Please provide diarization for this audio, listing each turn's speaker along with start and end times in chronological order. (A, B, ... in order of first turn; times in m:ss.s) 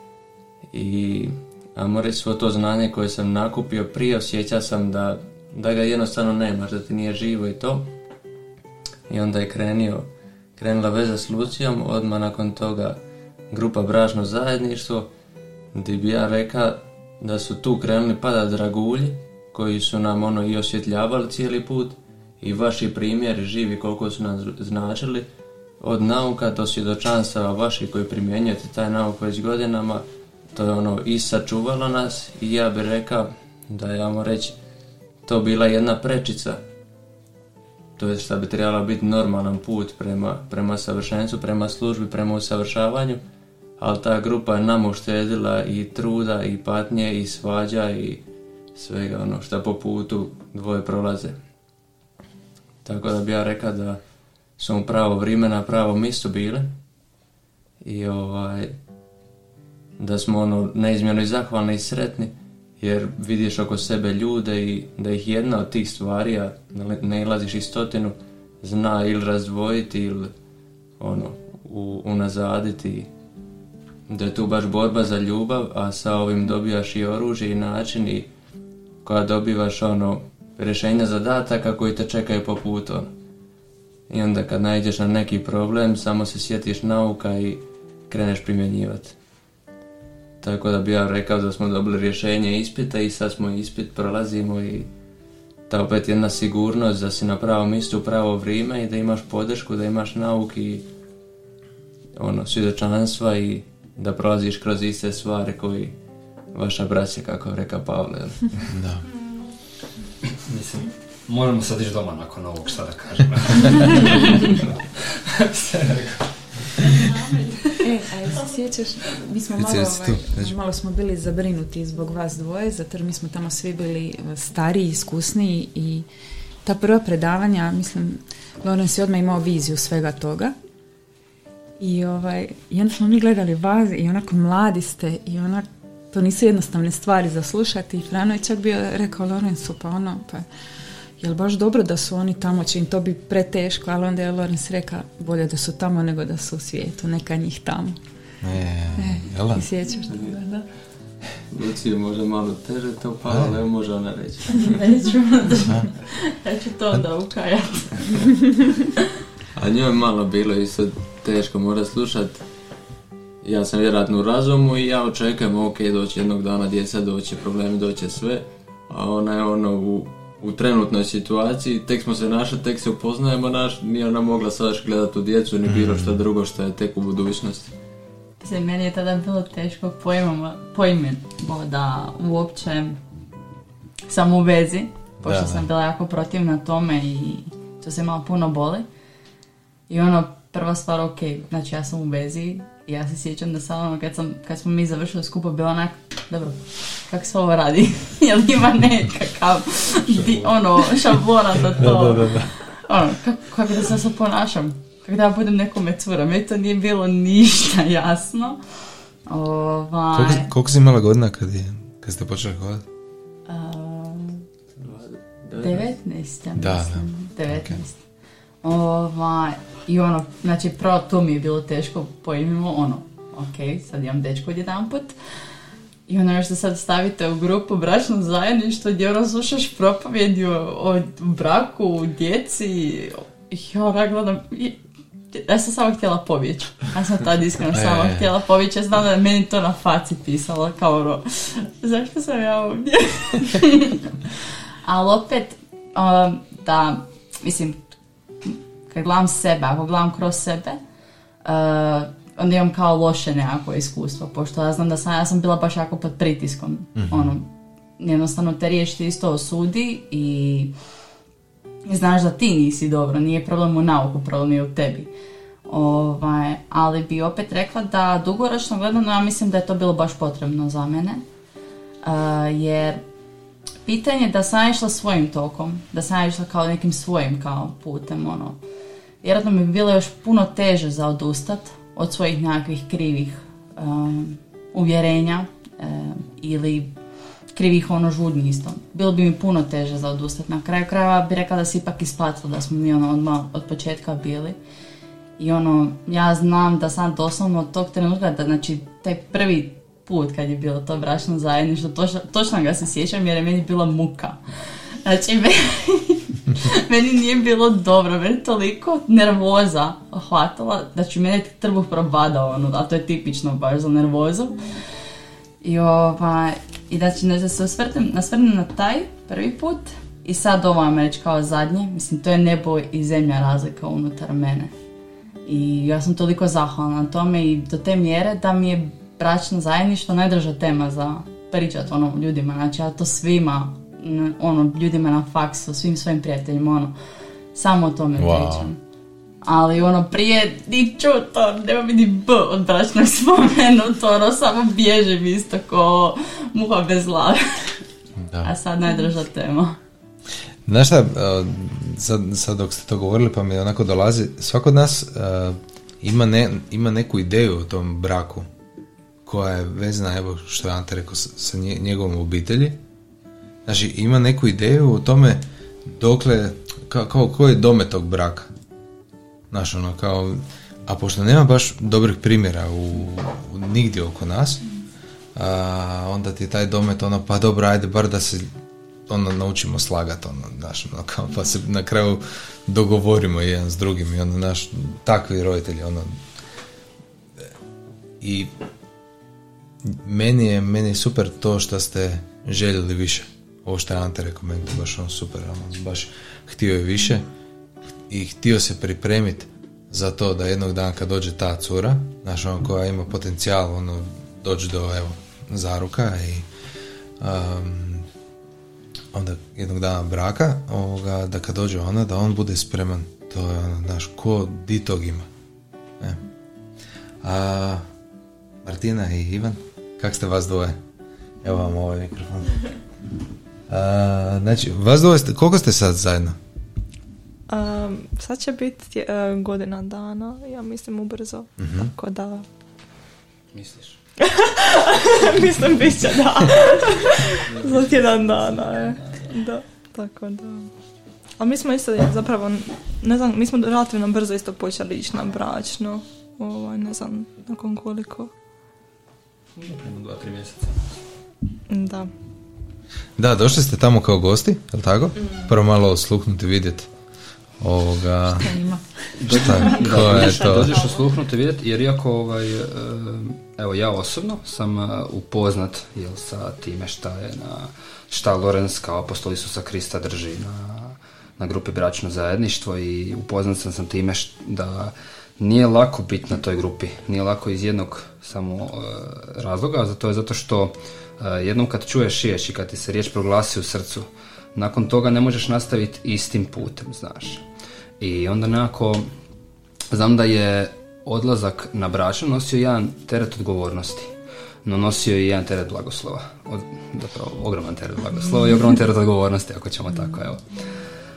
0:00.7-0:07.9 A
0:09.1-0:15.1 A
0:15.7-0:25.3 A
0:25.8-0:34.6 A
0:35.2-0:36.6 A
0:38.0-0:43.2 A
0:43.8-0:51.4 A
0:52.8-0:54.0 A
0:54.6-0:56.8 A
0:57.8-0:58.8 A
1:00.0-1:10.3 A
1:11.0-1:13.1 A
1:14.1-1:18.3 A
1:19.0-1:23.1 A
1:24.1-1:29.2 A
1:30.4-1:34.9 A
1:35.7-1:40.9 A
1:42.2-1:46.0 A
1:46.5-1:48.7 A
1:48.7-1:49.0 B
1:50.3-1:57.2 C
1:57.8-2:06.1 D
1:59.6-2:00.6 B
2:06.6-2:10.6 D
2:11.8-2:20.5 D
2:21.2-2:28.0 D
2:28.4-2:29.6 B
2:29.0-2:30.6 D
2:30.1-2:30.4 A
2:31.5-2:34.8 A
2:33.3-2:33.6 B
2:34.6-2:38.6 E
2:39.5-2:42.4 A
2:43.4-2:57.8 A
2:55.7-2:56.2 B
2:58.4-3:03.0 E
3:04.1-3:08.9 E
3:05.2-3:05.7 B
3:09.9-3:28.6 E
3:20.2-3:20.5 B
3:21.8-3:22.5 B
3:29.3-3:30.5 E
3:30.1-3:32.9 B
3:33.5-3:34.4 E
3:34.8-3:35.9 A
3:35.6-3:38.0 E
3:36.6-3:37.8 B
3:38.6-3:45.2 E
3:46.1-4:04.1 E
3:57.7-3:58.3 B
4:04.8-4:07.8 E
4:08.4-4:10.8 E
4:11.4-4:20.7 E
4:17.0-4:17.3 B
4:21.8-4:25.1 E
4:25.7-4:31.2 E
4:32.0-4:33.0 E
4:33.8-4:38.6 E
4:39.2-4:47.0 E
4:47.5-4:54.6 E
4:55.4-5:04.5 E
5:05.0-5:14.8 E
5:15.6-5:24.7 E
5:25.4-5:37.0 E
5:37.5-5:38.8 E
5:38.2-5:38.7 B
5:39.4-5:47.8 E
5:48.2-5:48.5 B
5:48.4-5:49.8 E
5:50.7-5:58.5 B
5:59.2-6:02.8 B
6:03.7-6:08.5 B
6:09.5-6:14.6 B
6:15.4-6:18.5 B
6:19.1-6:26.1 B
6:28.2-6:28.5 B
6:29.8-6:37.3 B
6:38.1-6:46.5 B
6:47.2-6:48.1 B
6:49.1-6:55.3 B
6:57.2-6:57.9 B
6:58.6-7:00.8 B
7:01.4-7:02.7 B
7:03.7-7:06.4 B
7:07.5-7:12.4 F
7:11.6-7:11.9 B
7:13.5-7:14.0 C
7:14.2-7:20.7 F
7:17.5-7:19.4 C
7:21.4-7:28.3 F
7:29.6-7:30.8 C
7:31.7-7:32.1 F
7:33.2-7:36.9 B
7:35.2-7:35.6 F
7:37.6-7:38.5 B
7:38.3-7:39.5 D
7:39.2-8:07.4 C
7:39.3-7:40.8 B
7:39.5-7:41.1 F
8:08.0-8:09.1 C
8:09.9-8:14.1 C
8:14.6-8:20.4 C